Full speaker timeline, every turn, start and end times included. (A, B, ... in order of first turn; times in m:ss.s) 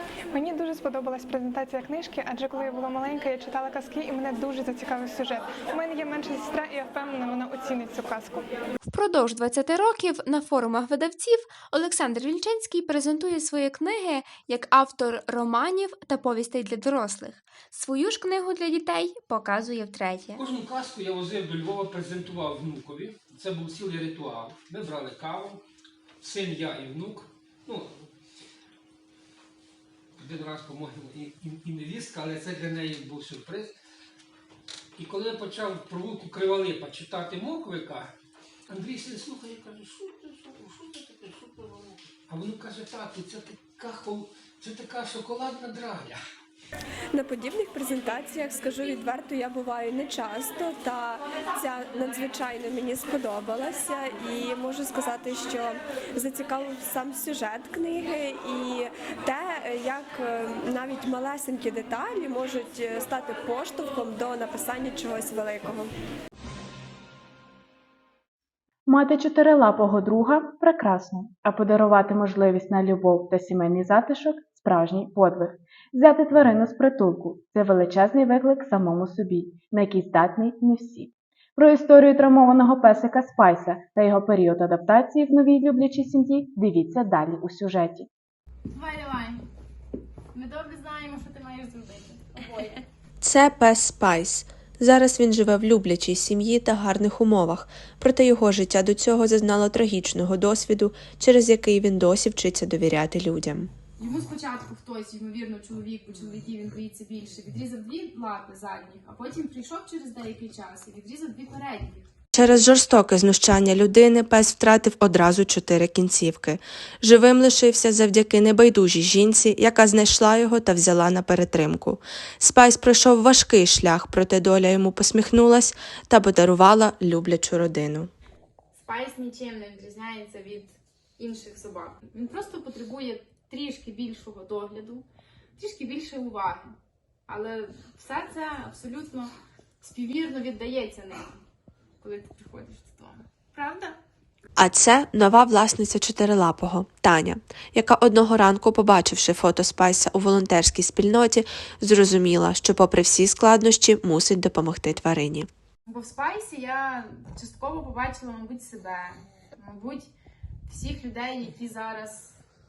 0:00.3-0:08.5 A
0:08.8-0:20.4 B
0:20.4-0:25.6 C
0:26.2-0:28.1 C
0:30.2-0:33.7 C
0:35.0-0:38.1 C
0:38.7-0:46.2 C
0:47.1-1:05.9 D
1:08.9-1:28.1 E
1:28.7-1:29.4 F
1:30.3-1:32.8 F
1:33.2-1:43.7 G
1:44.0-1:52.1 F
1:52.3-2:08.1 G
2:08.7-2:15.0 F
2:15.6-2:16.8 F
2:17.3-2:21.4 F
2:22.0-2:24.0 F
2:24.6-2:35.5 G
2:35.9-2:40.1 F
2:40.7-2:42.4 F